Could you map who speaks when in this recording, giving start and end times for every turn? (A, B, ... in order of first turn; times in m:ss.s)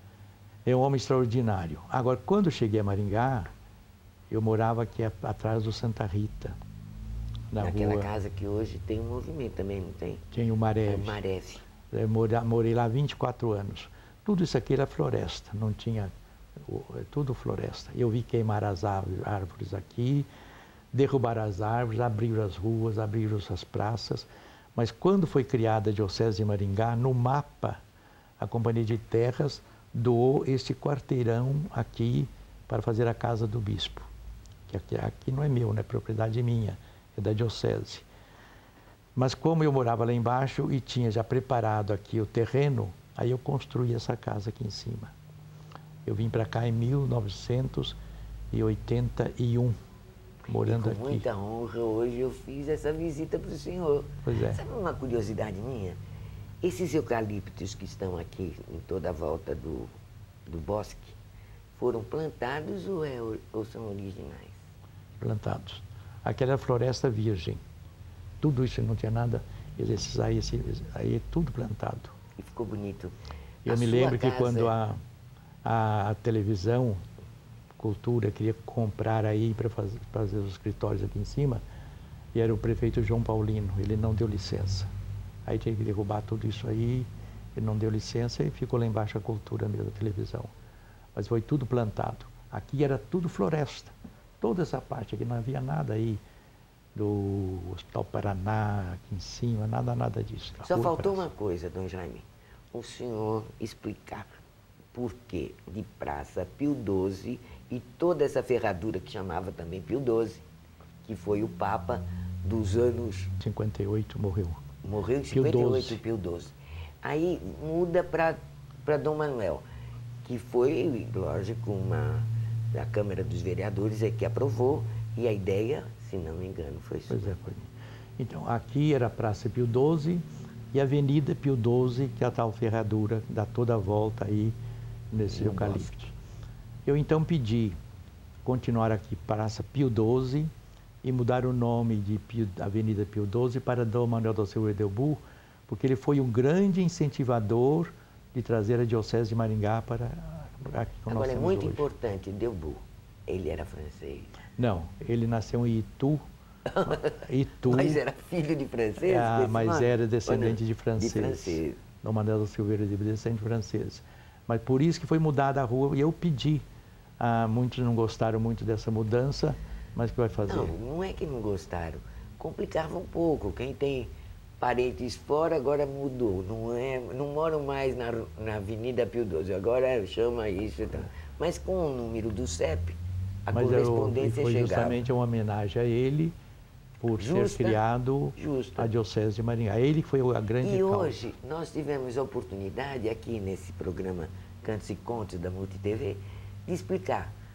0:00.6-0:03.5 A
0:04.3-0:06.6 A
0:07.5-0:08.1 A
0:07.6-0:10.2 B
0:10.3-0:11.2 A
0:10.9-0:11.6 B
0:11.9-0:20.3 A
0:20.9-0:27.8 A
0:28.4-0:34.1 A
0:34.7-0:38.1 A
0:39.2-0:45.1 A
0:46.1-0:48.0 A
0:48.5-0:49.8 A
0:50.5-0:51.3 A
0:50.6-0:56.0 B
0:54.3-0:54.6 A
0:56.6-0:59.9 B
1:00.5-1:01.2 B
1:01.8-1:04.6 B
1:05.2-1:07.6 A
1:08.4-1:12.1 A
1:12.4-1:13.1 B
1:13.6-1:15.0 A
1:13.7-1:14.7 B
1:15.6-1:17.0 A
1:17.8-1:21.6 A
1:22.3-1:24.9 A
1:25.4-1:30.5 A
1:31.2-1:36.2 A
1:37.0-1:41.2 A
1:40.6-1:44.3 B
1:44.9-1:50.4 B
1:51.0-1:53.3 B
1:53.4-1:54.6 A
1:54.8-1:59.6 B
1:55.3-1:56.0 A
2:00.2-2:07.3 B
2:07.1-2:14.6 A
2:15.1-2:16.1 A
2:15.3-2:15.9 B
2:16.9-2:17.8 A
2:18.4-2:20.5 A
2:21.0-2:31.9 A
2:31.1-2:34.4 B
2:34.6-2:36.2 A
2:36.7-2:41.8 B
2:36.8-2:38.0 A
2:39.0-2:46.6 A
2:47.2-2:50.8 A
2:50.4-3:05.0 B
3:03.5-3:06.4 A
3:07.0-3:11.2 A
3:07.2-3:07.8 B
3:08.4-3:08.9 B
3:10.6-3:17.3 B